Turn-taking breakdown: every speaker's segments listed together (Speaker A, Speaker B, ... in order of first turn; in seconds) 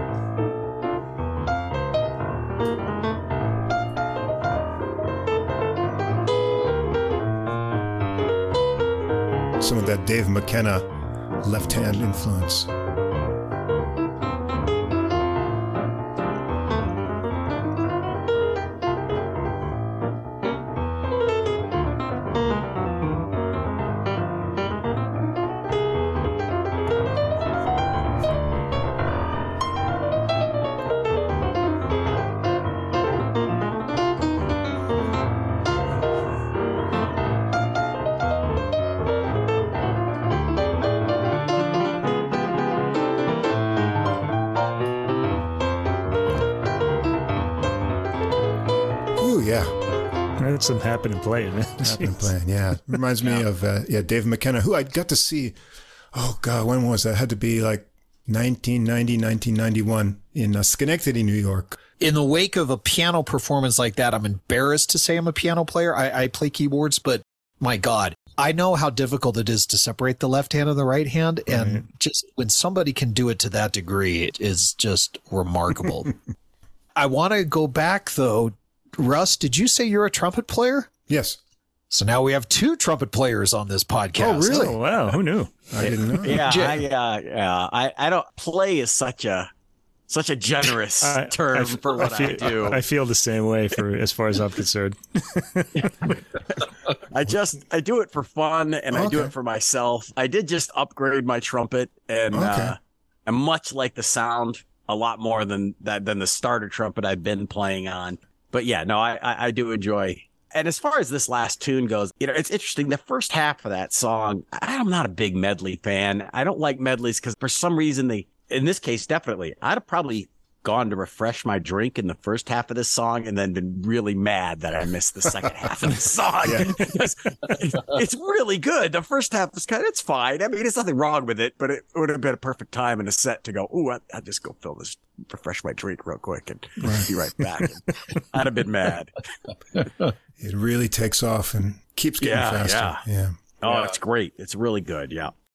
Speaker A: 9.6-10.9, 11.4-12.7, 49.1-49.7, 51.8-55.6, 56.1-61.8, 81.1-81.4, 84.2-84.8, 85.7-86.4, 98.9-99.3, 102.3-102.8, 126.4-126.8, 136.8-137.1, 140.4-143.4
Speaker B: 50.4-52.3, 71.5-71.8, 84.4-86.2, 91.0-96.1
Speaker C: 62.0-76.1, 76.9-80.9, 81.9-84.7, 86.3-86.8
Speaker D: 86.2-89.5, 90.1-92.8, 97.1-139.2, 142.2-143.0, 143.6-145.3